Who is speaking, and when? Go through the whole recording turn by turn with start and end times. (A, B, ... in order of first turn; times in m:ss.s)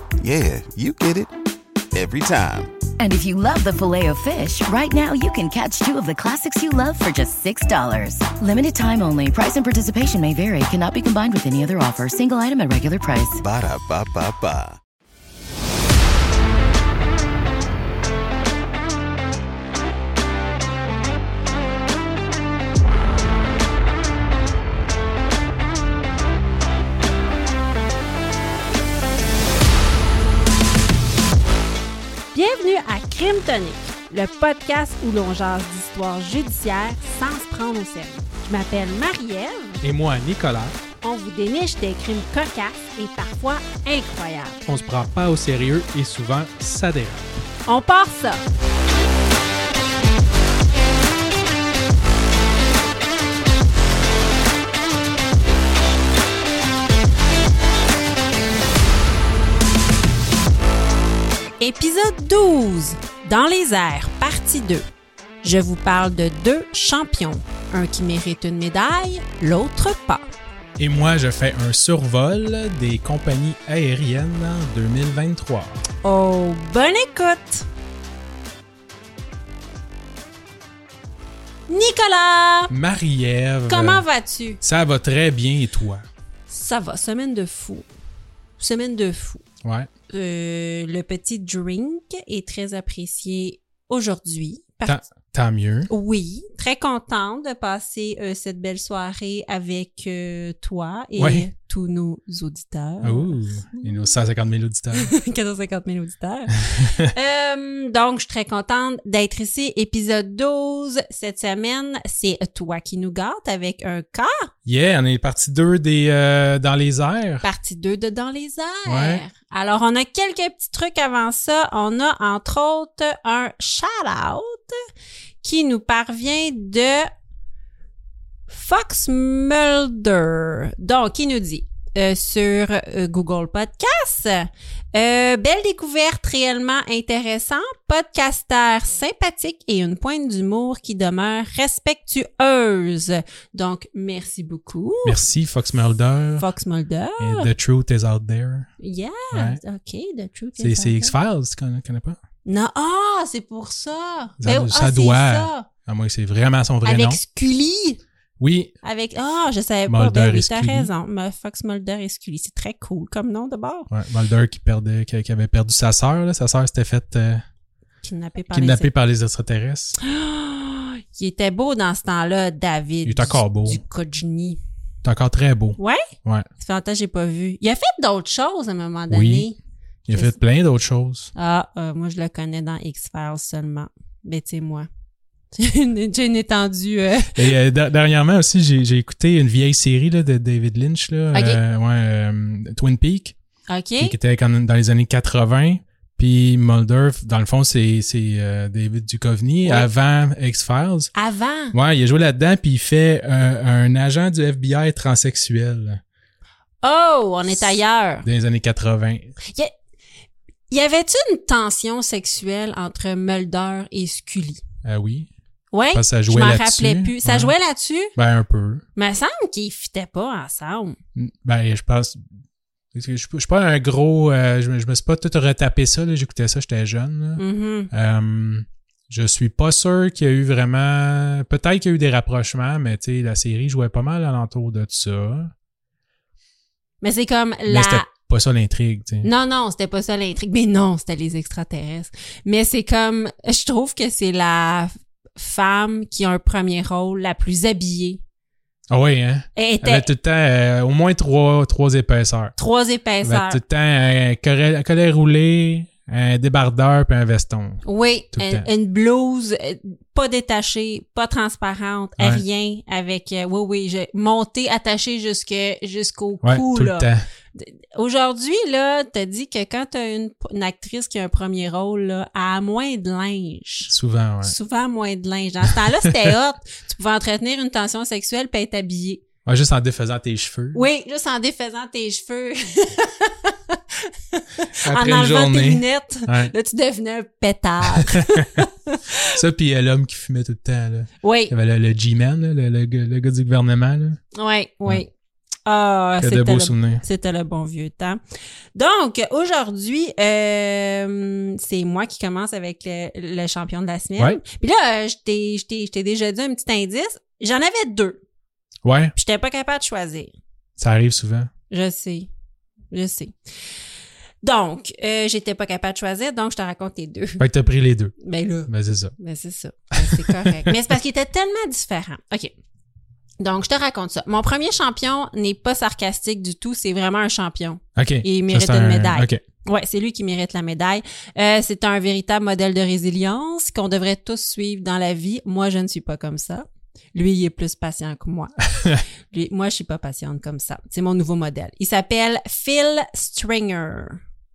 0:00.2-0:01.3 A
0:01.9-0:02.7 A
0:03.0-0:13.4 B
0:13.4-0:14.8 A
0:32.3-0:39.8 C
0:39.8-0:40.8 D
0:41.0-0:44.6 C
0:44.7-0:47.3 D
0:47.7-0:48.4 C
1:01.6-1:04.8 C
1:05.4-1:10.3 C
1:10.8-1:15.8 D
1:16.0-1:17.7 C
1:21.7-1:22.7 C
1:22.7-1:24.1 D
1:23.7-1:24.6 C
1:24.6-1:26.1 D
1:26.5-1:27.9 C
1:28.6-1:29.4 C
1:29.6-1:29.9 D
1:30.1-1:35.0 C
1:34.8-1:35.9 D
1:35.9-1:43.4 C
1:41.2-1:41.5 D
1:43.0-1:45.1 D
1:44.9-1:54.5 C
1:46.7-1:47.1 D
1:54.7-1:57.4 D
1:57.4-2:04.8 C
1:58.9-1:59.2 D
2:05.4-2:07.1 C
2:08.5-2:25.2 C
2:25.0-2:26.5 D
2:26.4-2:27.5 C
2:27.2-2:28.7 D
2:28.8-2:31.2 C
2:29.3-2:29.6 D
2:30.6-2:32.2 D
2:32.4-2:35.7 C
2:34.4-2:37.2 D
2:36.8-2:38.0 C
2:38.4-2:38.7 D
2:38.8-2:43.9 C
2:39.9-2:40.9 D
2:43.9-2:47.4 D
2:48.0-2:48.9 C
2:48.5-2:50.0 D
2:50.0-2:54.6 C
2:53.0-2:53.8 D
2:55.0-2:56.5 D
2:55.8-2:59.6 C
2:59.1-2:59.5 D
3:00.1-3:01.3 D
3:01.4-3:04.9 C
3:05.6-3:07.4 C
3:07.4-3:13.4 D
3:11.3-3:11.6 C
3:13.7-3:14.2 C
3:14.0-3:21.1 D
3:21.2-3:21.8 C
3:21.7-3:26.0 D
3:26.8-3:28.3 C
3:28.2-3:29.3 D
3:29.5-3:29.7 C
3:30.7-3:34.6 C
3:34.8-3:35.3 D
3:35.7-3:38.2 C
3:35.9-3:37.5 D
3:38.2-3:38.8 D
3:39.0-3:41.0 C
3:41.2-3:42.3 D
3:42.9-3:55.5 D
3:47.4-3:47.9 C
3:57.0-3:58.1 C
3:57.7-3:59.3 D
3:59.2-4:08.2 C
4:08.9-4:12.5 D
4:09.6-4:10.1 C
4:12.6-4:13.6 C
4:13.2-4:18.7 D
4:17.8-4:39.2 C
4:26.4-4:27.2 D
4:33.9-4:34.5 D
4:35.9-4:36.1 D
4:39.4-4:40.8 D
4:40.7-4:49.3 C
4:44.8-4:46.5 D
4:47.8-4:48.7 D
4:49.2-4:54.2 D
4:51.2-4:51.5 C
4:54.4-4:55.1 C
4:55.7-4:58.2 C
4:56.2-4:57.0 D
4:58.8-5:08.2 C
5:08.8-5:09.2 D
5:09.2-5:10.3 C
5:10.8-5:11.5 D
5:11.7-5:12.3 C
5:12.9-5:13.3 C
5:14.4-5:17.4 C
5:17.4-5:18.1 D
5:18.2-5:22.5 C
5:18.7-5:19.2 D
5:20.0-5:20.8 D
5:23.4-5:44.2 C
5:28.0-5:29.4 D